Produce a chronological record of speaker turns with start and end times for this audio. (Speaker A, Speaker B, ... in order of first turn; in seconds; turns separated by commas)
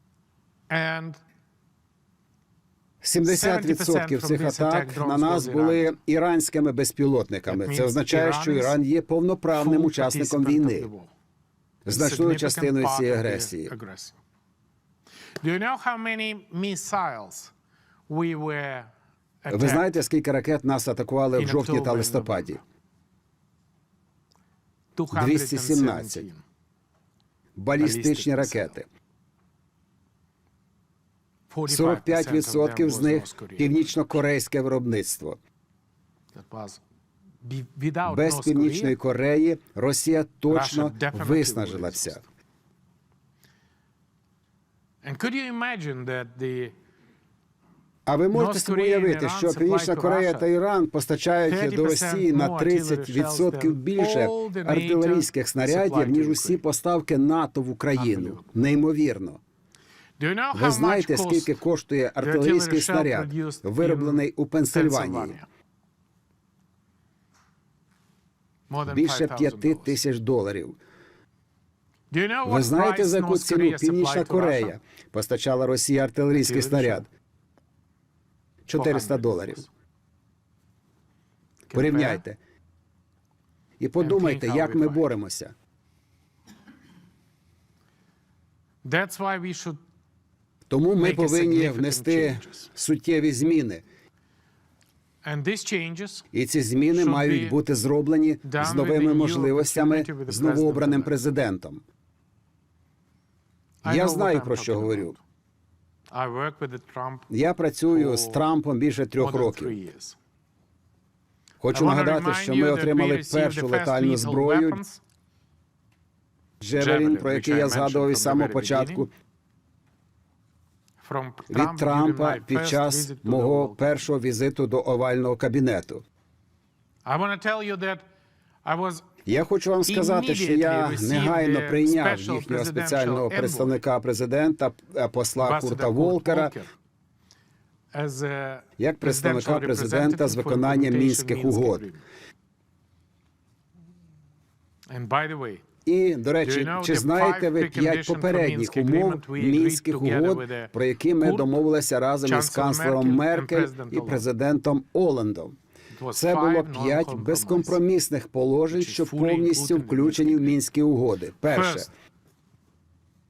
Speaker A: 0.7-1.2, Speaker B: 3.0-10.9, Speaker A: 3.2-5.9, Speaker A: 7.5-8.8, Speaker A: 9.5-11.1, Speaker B: 11.8-13.7, Speaker A: 11.9-14.2, Speaker A: 15.4-17.5, Speaker A: 18.1-18.9, Speaker A: 19.4-20.0, Speaker B: 19.5-22.6, Speaker A: 21.4-22.6, Speaker A: 24.9-26.4, Speaker B: 25.1-26.3, Speaker B: 27.6-28.8, Speaker A: 27.8-28.8, Speaker A: 31.5-34.2, Speaker B: 31.7-35.4, Speaker A: 36.3-36.8, Speaker A: 37.4-39.0, Speaker B: 38.0-42.2, Speaker A: 40.5-42.2, Speaker A: 45.0-46.7, Speaker B: 48.0-59.4, Speaker A: 48.3-50.5, Speaker A: 51.5-56.6, Speaker A: 57.9-58.5, Speaker A: 60.2-61.6, Speaker B: 60.5-65.4, Speaker A: 62.2-65.5, Speaker A: 68.7-70.0, Speaker B: 68.8-70.8, Speaker A: 72.1-74.7, Speaker B: 72.4-77.1, Speaker A: 76.3-77.0, Speaker B: 78.7-79.6, Speaker A: 78.7-79.7, Speaker B: 81.7-82.4, Speaker A: 81.7-82.2, Speaker B: 83.8-85.5, Speaker A: 84.0-85.1, Speaker A: 88.8-89.8, Speaker B: 90.7-93.8, Speaker A: 91.0-92.7, Speaker A: 95.2-96.3, Speaker B: 96.3-101.8, Speaker A: 96.9-97.6, Speaker A: 98.4-101.2, Speaker A: 103.8-105.2, Speaker B: 103.8-105.1, Speaker A: 106.1-107.3, Speaker B: 107.3-109.8, Speaker A: 107.9-108.4, Speaker A: 109.2-110.2, Speaker B: 111.6-114.8, Speaker A: 111.7-115.0, Speaker B: 116.6-119.1, Speaker A: 116.8-119.1, Speaker A: 121.0-124.0, Speaker B: 121.5-126.0, Speaker A: 127.0-128.0, Speaker A: 128.6-129.1, Speaker B: 129.2-136.5, Speaker A: 129.8-133.8, Speaker A: 135.4-136.7, Speaker A: 137.9-142.0, Speaker B: 138.8-141.8, Speaker A: 144.9-145.6, Speaker B: 145.8-155.6, Speaker A: 146.4-151.6, Speaker A: 152.2-154.2, Speaker A: 155.9-157.8, Speaker B: 156.1-161.8, Speaker A: 158.7-160.6, Speaker A: 161.5-161.8